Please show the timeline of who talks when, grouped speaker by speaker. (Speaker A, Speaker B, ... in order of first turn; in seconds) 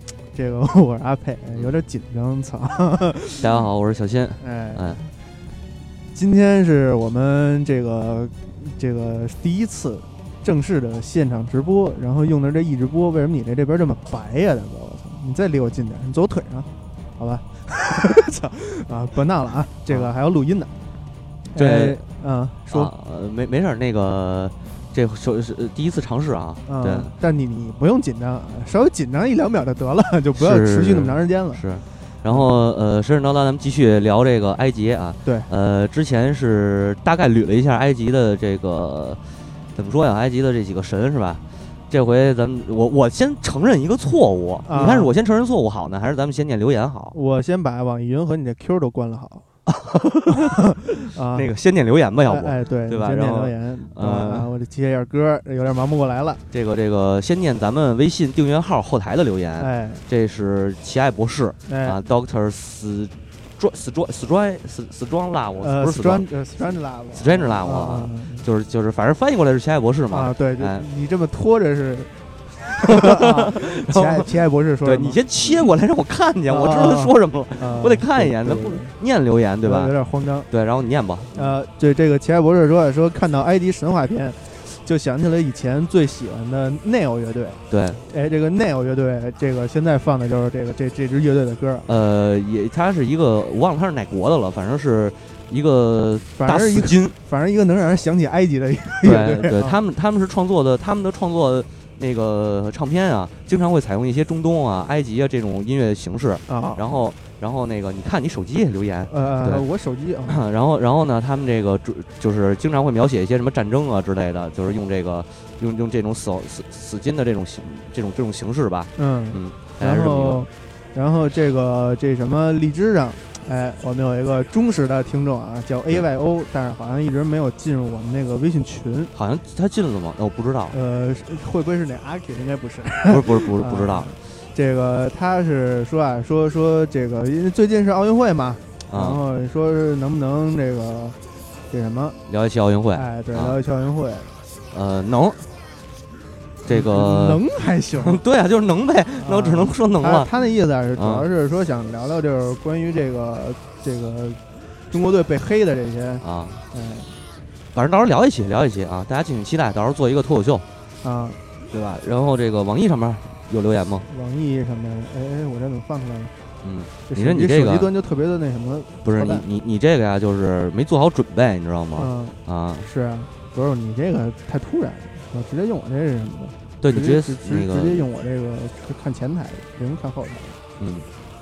Speaker A: 0.3-3.6, 4.4-5.0, 6.1-20.7, 21.5-22.9, 26.6-31.6, 35.2-35.5, 44.6-45.1, 47.1-49.4, 50.3-51.5, 52.3-56.4, 59.6-60.0, 61.7-62.0, 65.6-68.5, 70.1-75.5, 76.5-78.9, 79.6-80.5, 81.3-91.9, 96.4-99.8, 106.5-106.9, 109.1-110.4, 119.0-129.1, 130.7-141.2, 141.7-142.2, 142.9-144.3, 146.7-148.2, 149.2-157.1, 161.0-161.4, 164.1-166.3, 167.1-169.4, 172.0-180.6
Speaker B: 3.4-5.0, 21.5-22.0, 22.7-27.1, 30.4-39.2, 39.7-47.2, 49.7-54.5, 56.5-66.2, 67.1-70.9, 72.9-74.3, 74.8-79.9, 80.5-81.5, 87.7-88.0, 91.9-97.2, 99.0-109.6, 110.3-120.5, 129.1-130.8, 133.1-134.1, 138.9-139.2, 142.2-143.6, 144.7-145.4, 146.6-147.4, 148.0-150.3, 150.9-151.2, 156.2-156.6, 157.7-160.6, 161.7-164.1, 166.6-167.9, 169.0-172.9, 176.8-178.0, 180.8-181.1